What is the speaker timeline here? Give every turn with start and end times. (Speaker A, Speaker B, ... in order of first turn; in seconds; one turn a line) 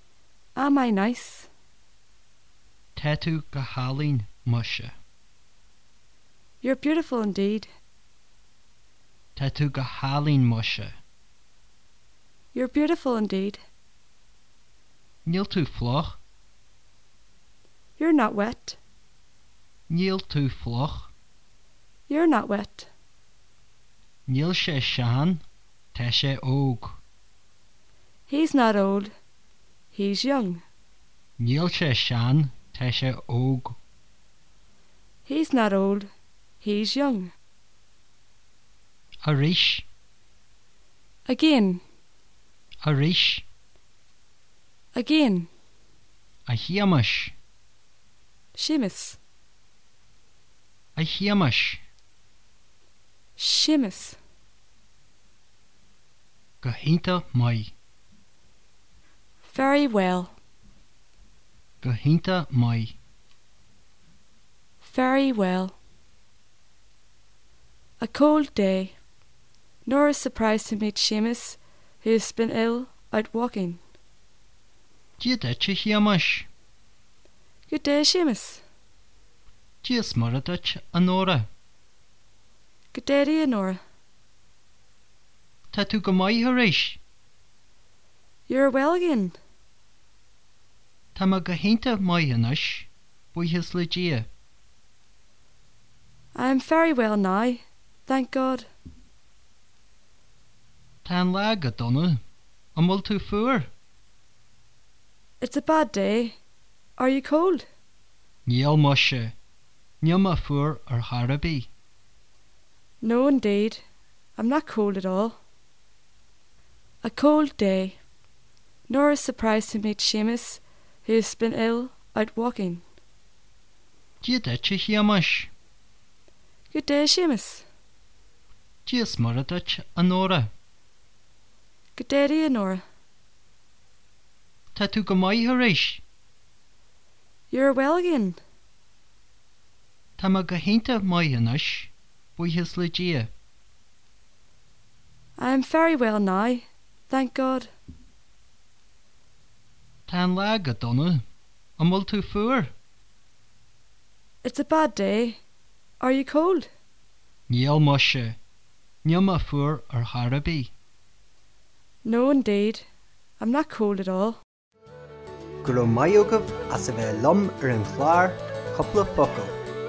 Speaker A: 0.6-1.5
Speaker B: 3.0-4.9
Speaker A: 6.6-7.7
Speaker B: 9.3-10.9
Speaker A: 12.5-13.6
Speaker B: 15.2-16.2
Speaker A: 18.0-18.8
Speaker B: 19.9-21.1
Speaker A: 22.1-22.9
Speaker B: 24.3-25.4
Speaker B: 25.9-27.0
Speaker A: 28.3-29.1
Speaker A: 29.9-30.6
Speaker B: 31.4-33.8
Speaker A: 35.2-36.1
Speaker A: 36.6-37.3
Speaker B: 39.2-39.9
Speaker A: 41.2-41.8
Speaker B: 42.8-43.4
Speaker A: 44.9-45.5
Speaker B: 46.5-47.3
Speaker A: 48.5-49.2
Speaker B: 51.0-51.8
Speaker A: 53.4-54.2
Speaker B: 56.6-57.7
Speaker A: 59.4-60.3
Speaker B: 61.8-63.0
Speaker A: 64.8-65.7
Speaker A: 68.0-69.0
Speaker A: 69.8-73.8
Speaker B: 75.2-76.5
Speaker A: 77.7-78.6
Speaker B: 79.8-81.5
Speaker A: 82.9-83.8
Speaker B: 85.7-87.0
Speaker A: 88.5-89.3
Speaker B: 91.2-94.3
Speaker A: 96.3-98.7
Speaker B: 101.0-102.2
Speaker B: 102.8-103.7
Speaker A: 105.4-106.4
Speaker A: 107.0-107.6
Speaker B: 108.5-109.3
Speaker B: 110.0-111.7
Speaker A: 113.0-113.8
Speaker A: 114.3-115.4
Speaker A: 117.0-118.0
Speaker A: 118.9-122.8
Speaker B: 124.2-125.5
Speaker A: 126.7-127.6
Speaker B: 128.8-130.5
Speaker A: 131.9-132.8
Speaker B: 134.7-136.0
Speaker A: 137.5-138.4
Speaker B: 140.2-143.3
Speaker A: 145.4-147.7
Speaker B: 150.1-151.2
Speaker B: 151.8-152.7
Speaker A: 154.4-155.4
Speaker A: 156.0-156.7
Speaker B: 157.5-158.4
Speaker B: 159.0-160.7
Speaker A: 162.0-162.8
Speaker A: 163.4-164.4
Speaker C: 165.6-169.6